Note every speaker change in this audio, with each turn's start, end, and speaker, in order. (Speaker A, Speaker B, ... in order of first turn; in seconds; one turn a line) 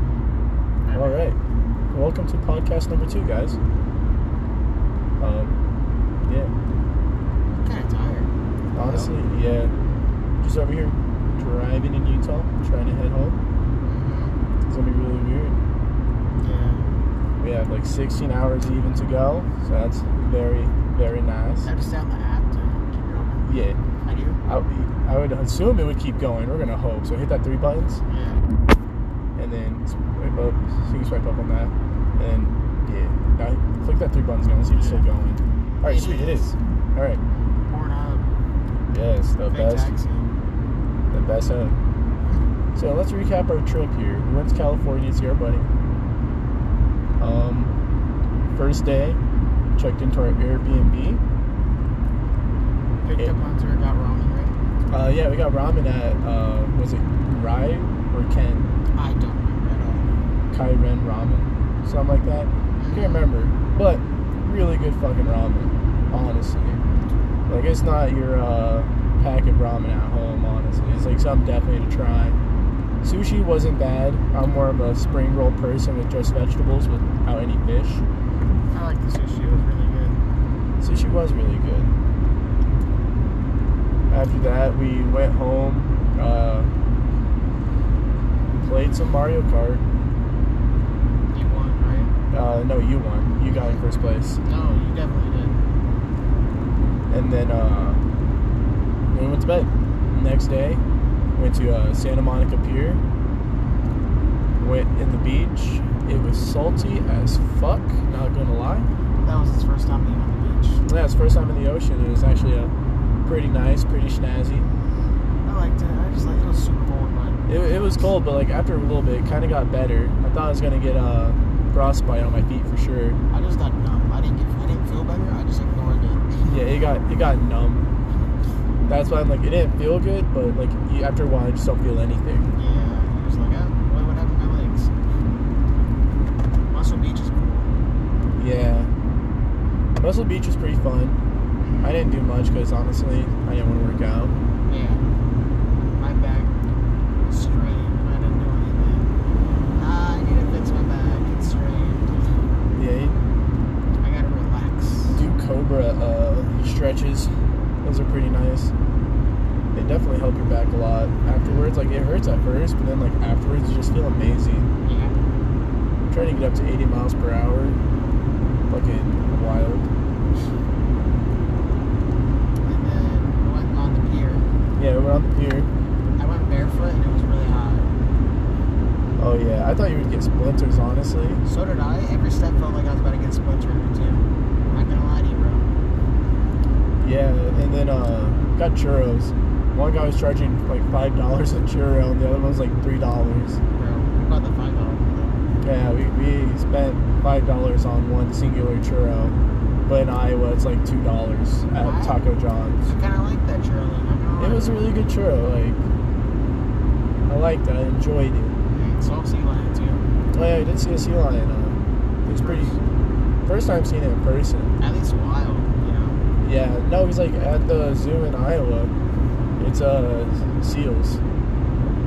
Speaker A: 0.9-1.3
Speaker B: 0.9-1.4
Speaker B: 1.9-3.6
Speaker B: 5.2-5.5
Speaker B: 6.3-6.5
Speaker A: 7.5-8.3
Speaker B: 8.8-9.7
Speaker B: 10.4-13.4
Speaker A: 13.8-14.4
Speaker B: 14.7-15.6
Speaker A: 16.4-16.9
Speaker B: 17.4-21.7
Speaker A: 21.6-23.5
Speaker B: 23.5-23.8
Speaker A: 24.0-24.4
Speaker B: 24.5-28.0
Speaker A: 28.1-28.4
Speaker B: 29.4-37.2
Speaker A: 34.8-35.0
Speaker A: 35.8-36.5
Speaker A: 37.7-38.3
Speaker B: 38.9-39.9
Speaker A: 39.5-40.3
Speaker B: 41.1-41.8
Speaker B: 42.8-45.7
Speaker B: 47.2-47.7
Speaker B: 48.5-49.2
Speaker B: 49.8-51.2
Speaker A: 53.0-54.6
Speaker B: 54.9-58.7
Speaker A: 59.0-60.1
Speaker B: 60.5-66.8
Speaker A: 62.8-63.3
Speaker B: 67.5-72.4
Speaker B: 73.0-78.0
Speaker A: 78.7-80.2
Speaker B: 80.8-81.9
Speaker B: 84.1-86.7
Speaker B: 88.6-89.8
Speaker A: 91.3-92.1
Speaker B: 92.3-94.4
Speaker A: 94.4-95.6
Speaker B: 97.1-98.0
Speaker B: 99.1-100.8
Speaker B: 101.4-103.0
Speaker B: 104.6-108.9
Speaker A: 109.2-110.8
Speaker B: 110.9-112.7
Speaker B: 113.2-114.7
Speaker A: 115.5-118.1
Speaker B: 117.5-123.2
Speaker A: 123.3-126.4
Speaker B: 126.4-127.9
Speaker B: 128.9-132.5
Speaker A: 132.6-134.9
Speaker A: 136.7-137.7
Speaker B: 138.4-138.9
Speaker B: 140.0-141.2
Speaker A: 141.6-141.9
Speaker B: 141.8-144.3
Speaker A: 144.7-145.0
Speaker A: 146.0-146.5
Speaker A: 147.3-149.1
Speaker A: 149.8-152.4
Speaker B: 152.8-153.2
Speaker A: 154.0-155.2
Speaker B: 155.1-157.3
Speaker B: 157.8-158.7
Speaker B: 159.8-164.7
Speaker A: 161.4-161.7
Speaker A: 164.8-165.2
Speaker B: 166.1-167.8
Speaker B: 168.7-169.9
Speaker A: 172.6-174.5
Speaker B: 174.8-175.7
Speaker A: 176.2-177.9
Speaker B: 179.2-181.4
Speaker A: 181.4-185.7
Speaker B: 187.0-193.6
Speaker A: 193.8-195.4
Speaker B: 195.6-199.3
Speaker B: 199.9-202.8
Speaker A: 201.8-202.2
Speaker A: 202.8-205.1
Speaker B: 204.4-205.8
Speaker B: 207.3-208.6
Speaker A: 208.7-210.1
Speaker B: 210.3-212.8
Speaker A: 212.3-212.8
Speaker B: 213.4-214.8
Speaker A: 214.8-216.2
Speaker B: 216.4-218.9
Speaker B: 219.6-221.2